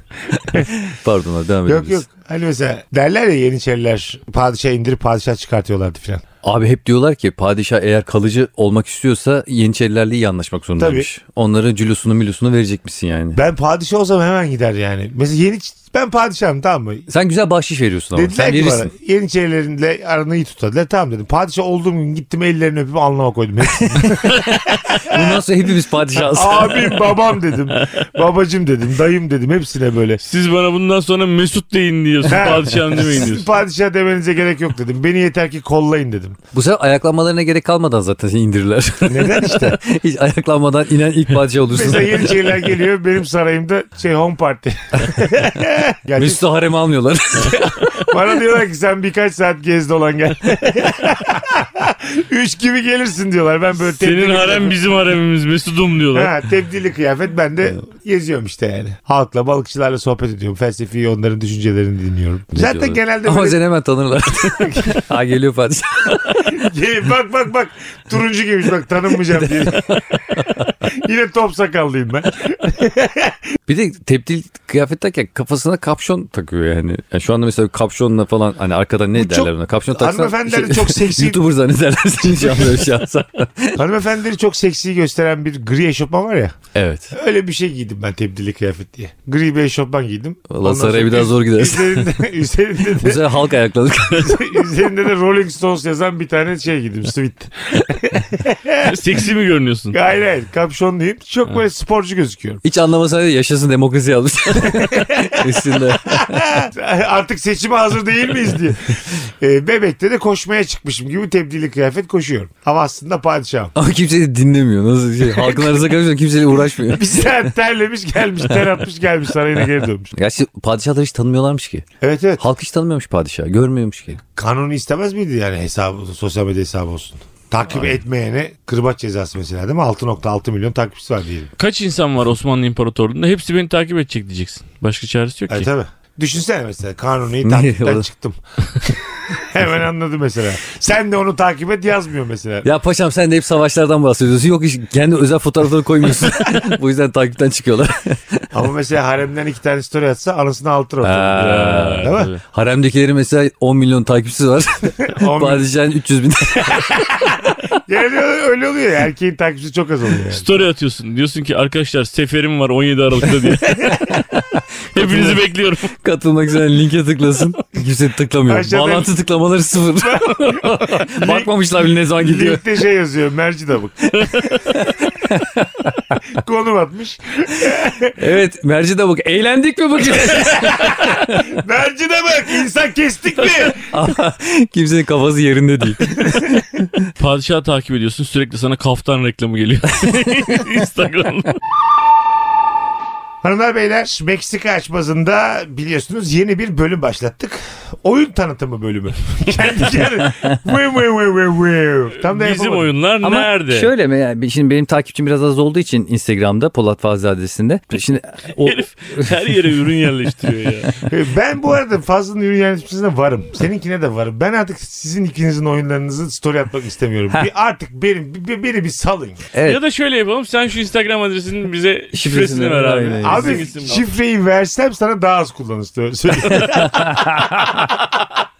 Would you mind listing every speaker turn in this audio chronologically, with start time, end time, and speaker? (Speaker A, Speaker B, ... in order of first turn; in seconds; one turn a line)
Speaker A: 0.3-2.0
Speaker B: 1.6-6.2
Speaker A: 6.4-13.4
Speaker B: 10.8-11.1
Speaker B: 13.3-17.1
Speaker A: 17.1-18.9
Speaker B: 18.1-25.4
Speaker A: 24.9-27.0
Speaker B: 26.1-30.2
Speaker C: 30.2-33.5
Speaker B: 32.2-36.4
Speaker A: 36.5-42.4
Speaker B: 39.0-39.8
Speaker B: 41.7-46.4
Speaker A: 46.1-47.8
Speaker B: 47.4-54.8
Speaker C: 53.8-56.3
Speaker B: 56.1-63.6
Speaker A: 62.5-66.6
Speaker B: 64.5-65.0
Speaker B: 66.3-73.4
Speaker A: 69.4-70.7
Speaker A: 73.7-83.8
Speaker B: 79.1-81.4
Speaker B: 82.4-82.8
Speaker B: 83.8-86.5
Speaker A: 86.7-87.1
Speaker B: 87.1-93.4
Speaker A: 90.5-92.1
Speaker A: 93.0-94.5
Speaker B: 94.1-99.3
Speaker C: 98.8-100.0
Speaker B: 99.9-102.6
Speaker A: 102.6-106.5
Speaker B: 104.5-113.7
Speaker A: 113.7-117.3
Speaker B: 115.2-115.9
Speaker B: 116.7-120.1
Speaker A: 120.1-121.9
Speaker B: 122.0-122.4
Speaker A: 122.4-124.2
Speaker B: 124.3-131.5
Speaker C: 131.6-135.7
Speaker B: 135.5-142.7
Speaker A: 137.4-138.1
Speaker A: 142.6-148.5
Speaker B: 148.5-152.3
Speaker A: 151.0-157.0
Speaker C: 151.4-152.4
Speaker B: 155.0-155.7
Speaker B: 156.6-160.4
Speaker C: 160.3-164.2
Speaker A: 164.1-165.4
Speaker C: 164.9-165.9
Speaker A: 166.0-172.6
Speaker B: 168.4-169.1
Speaker B: 170.0-171.5
Speaker B: 172.0-175.0
Speaker A: 174.3-176.2
Speaker B: 176.3-178.2
Speaker A: 178.2-181.5
Speaker B: 180.0-183.9
Speaker A: 183.8-187.0
Speaker B: 186.0-186.6
Speaker C: 187.2-191.6
Speaker B: 193.4-202.9
Speaker C: 202.2-203.9
Speaker A: 203.2-209.9
Speaker C: 208.6-210.9
Speaker B: 211.1-219.4
Speaker A: 219.5-219.8
Speaker C: 219.6-224.0
Speaker A: 222.1-223.7
Speaker B: 223.2-228.2
Speaker A: 226.4-227.9